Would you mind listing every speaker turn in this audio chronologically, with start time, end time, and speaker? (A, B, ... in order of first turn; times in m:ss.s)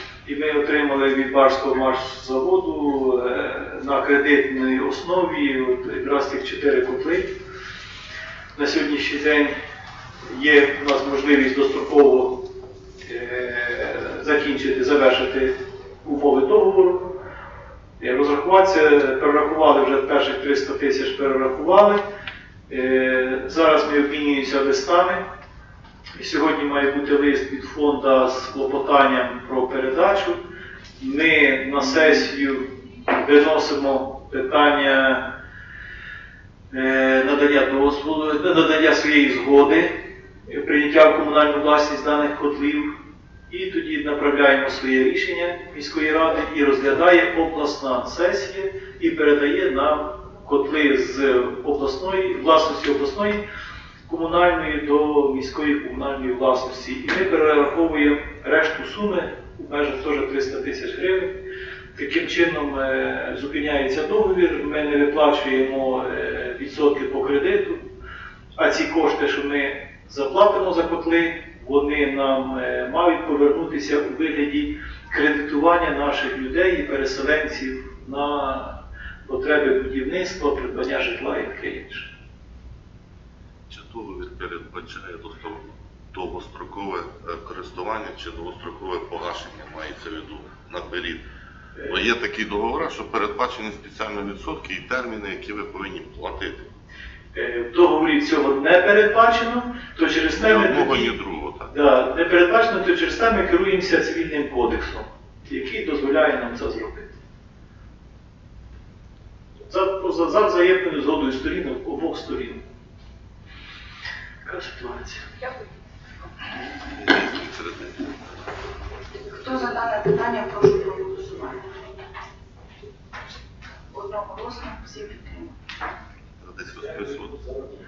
0:00.2-0:07.3 A
0:08.5-0:09.5 A
0:10.2-0:12.4 A
0:13.0-0:17.2 A
0:18.0-0:22.0 A
0:22.7-0:25.2 A
0:26.2-0:30.4 A
0:31.0-0:35.2 A
0:36.7-0:39.9 A
0:40.4-0:42.9 A
0:43.5-0:53.4 A
0:54.0-1:01.3 A
1:01.9-1:07.8 A
1:08.6-1:22.1 A
1:23.7-1:31.2 B
1:31.8-1:36.7 B
1:37.3-1:41.2 A
1:40.4-1:41.7 B
1:41.7-1:47.1 A
1:49.7-1:52.6 A
1:54.4-1:55.3 A
1:56.8-1:58.1 B
1:59.3-2:01.6 C
2:03.9-2:05.5 C
2:06.4-2:07.4 B